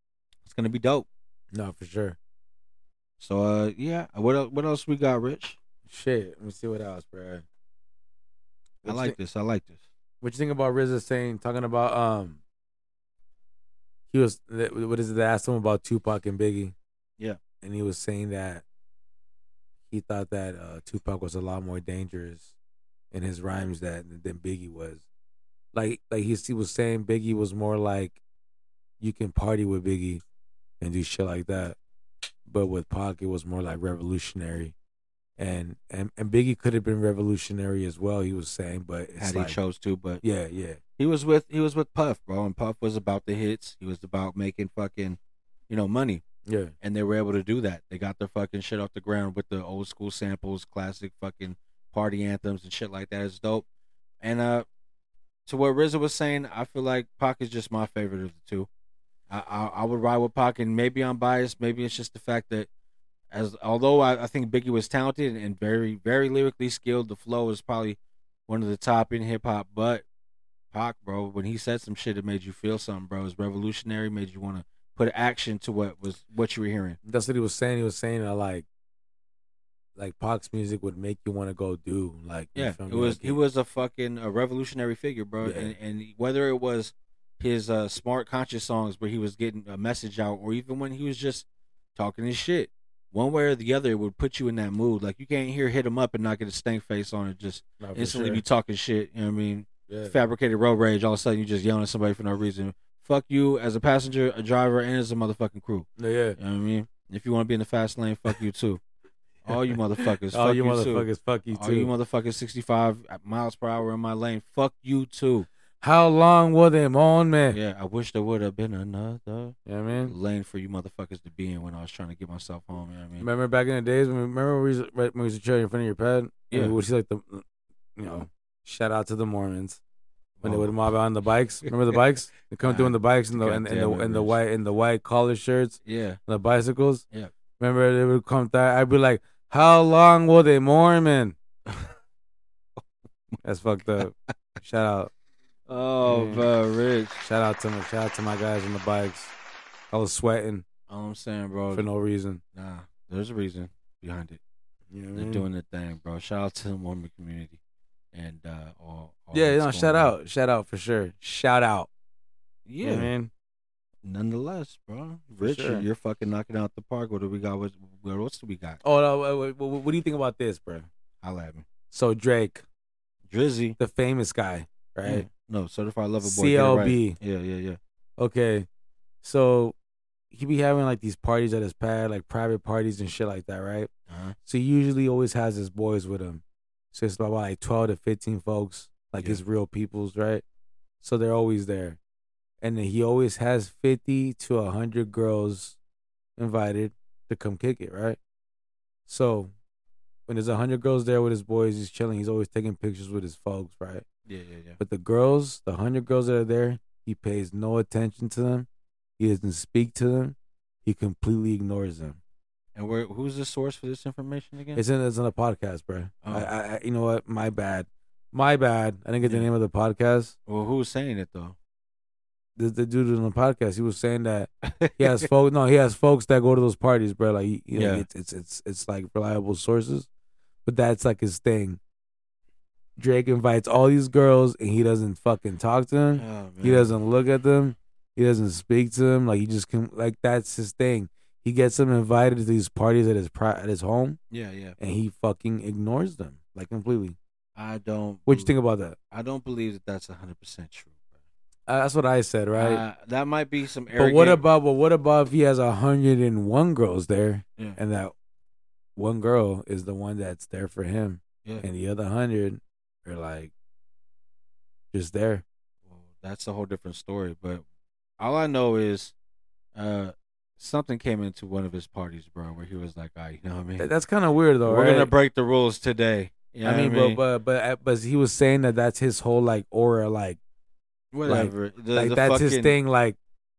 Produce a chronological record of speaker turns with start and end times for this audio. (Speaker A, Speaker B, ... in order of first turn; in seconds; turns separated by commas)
Speaker A: 0.4-1.1, Speaker B: 1.5-2.2, Speaker A: 3.2-5.6, Speaker B: 5.9-7.4, Speaker B: 8.8-9.2, Speaker A: 8.8-9.8, Speaker B: 10.2-12.4, Speaker B: 14.1-16.7, Speaker B: 17.6-18.6, Speaker B: 19.9-22.5, Speaker B: 23.1-25.0, Speaker B: 25.7-28.2, Speaker B: 29.0-30.2, Speaker B: 30.8-31.8, Speaker B: 32.5-34.7, Speaker B: 35.4-39.6, Speaker A: 39.2-40.2, Speaker B: 40.2-40.8, Speaker A: 41.0-46.2, Speaker B: 46.5-46.7, Speaker A: 46.8-53.6, Speaker A: 54.2-54.7, Speaker A: 55.5-58.7, Speaker A: 59.3-62.7, Speaker A: 63.3-70.0, Speaker A: 70.7-77.0, Speaker B: 77.0-78.6, Speaker B: 80.0-83.4, Speaker A: 82.5-108.8, Speaker B: 85.4-85.7, Speaker B: 97.8-98.4, Speaker B: 99.9-100.2, Speaker B: 106.0-106.4, Speaker A: 109.4-115.5, Speaker B: 109.5-111.9, Speaker B: 115.8-117.6, Speaker A: 117.5-123.3, Speaker B: 119.7-120.1, Speaker B: 123.2-127.4, Speaker A: 126.5-126.8, Speaker B: 128.0-129.8, Speaker A: 130.4-130.7, Speaker B: 130.4-137.0, Speaker A: 131.7-132.0, Speaker A: 132.6-134.4, Speaker A: 135.8-136.2, Speaker B: 137.6-141.4, Speaker B: 143.4-145.1, Speaker A: 145.7-147.2, Speaker B: 146.0-146.5, Speaker B: 147.2-149.3, Speaker B: 149.9-150.6, Speaker A: 150.9-151.9, Speaker B: 151.7-152.4, Speaker A: 152.5-154.4, Speaker B: 154.9-155.4, Speaker A: 155.1-157.6, Speaker A: 158.1-160.1, Speaker B: 159.3-161.9, Speaker A: 162.7-163.1, Speaker B: 162.8-163.3, Speaker A: 164.0-168.8, Speaker B: 165.4-165.9, Speaker B: 168.8-170.9, Speaker A: 171.2-171.7, Speaker B: 171.9-172.6, Speaker A: 173.3-173.8, Speaker B: 173.8-175.3, Speaker A: 175.0-177.8, Speaker B: 176.2-177.2, Speaker B: 178.2-178.7, Speaker B: 179.2-179.7, Speaker B: 180.3-183.9, Speaker A: 184.1-184.4, Speaker B: 184.4-190.4, Speaker B: 191.0-192.0, Speaker B: 192.6-195.8, Speaker B: 196.4-198.2, Speaker B: 199.1-199.5, Speaker B: 200.3-204.1, Speaker A: 204.3-204.8, Speaker B: 204.8-208.7, Speaker B: 209.2-212.2, Speaker A: 212.7-214.8, Speaker B: 214.7-220.3, Speaker A: 216.2-216.5, Speaker A: 220.4-221.6, Speaker B: 222.6-230.1, Speaker A: 224.6-225.2, Speaker A: 227.7-228.1, Speaker B: 230.6-231.8, Speaker B: 233.0-244.2, Speaker A: 236.2-236.9, Speaker A: 244.3-244.8, Speaker B: 244.8-247.2, Speaker A: 247.6-248.5, Speaker B: 248.3-248.9, Speaker A: 249.1-251.0, Speaker B: 251.7-252.8, Speaker A: 252.6-254.4, Speaker B: 253.9-258.1, Speaker B: 258.9-263.5, Speaker B: 264.9-265.4, Speaker A: 265.9-267.6, Speaker A: 268.2-269.1, Speaker A: 269.7-273.9, Speaker B: 273.8-275.1, Speaker A: 274.6-277.2, Speaker B: 276.6-280.4, Speaker A: 281.1-282.8, Speaker B: 281.2-283.2